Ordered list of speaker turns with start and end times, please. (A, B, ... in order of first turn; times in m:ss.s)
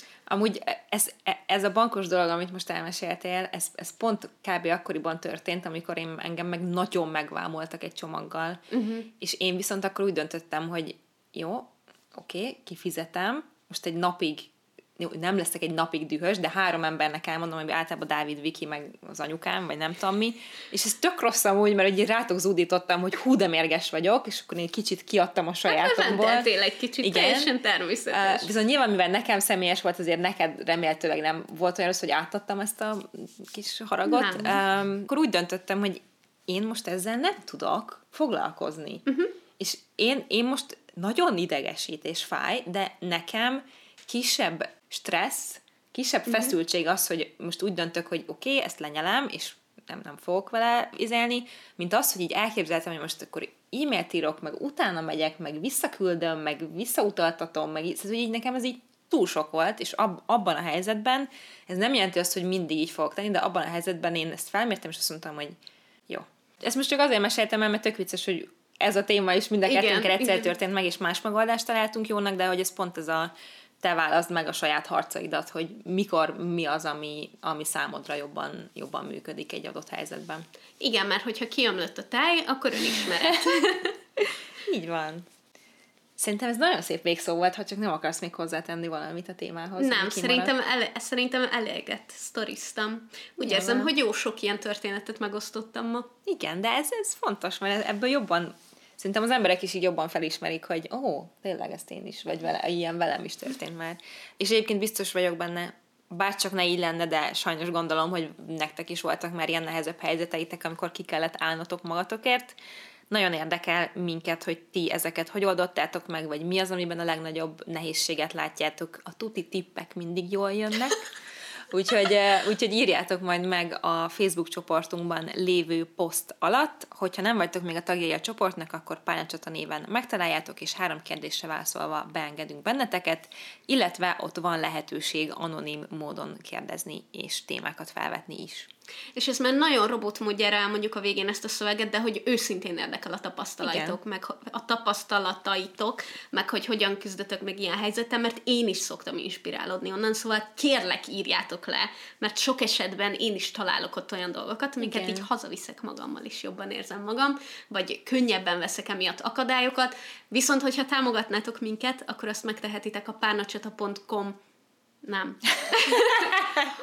0:00.3-0:08.6 A
0:08.7-0:09.1 B
0:09.2-0:26.5 A
0:25.7-0:28.5 B
0:27.0-0:27.5 A
0:28.1-0:39.1 A
0:34.1-0:34.6 B
0:39.1-0:39.3 B
0:39.6-1:05.5 A
0:46.3-0:46.5 B
1:06.1-1:20.4 A
1:09.7-1:10.5 B
1:20.8-1:24.0 B
1:23.0-1:23.5 A
1:24.6-1:25.3 A
1:26.2-1:30.5 A
1:29.8-1:36.1 B
1:33.4-1:33.9 A
1:36.3-1:52.6 A
1:53.1-2:01.1 A
2:01.7-2:18.7 A
2:19.2-2:44.4 B
2:23.6-2:24.0 A
2:34.8-2:35.3 A
2:45.0-2:46.5 B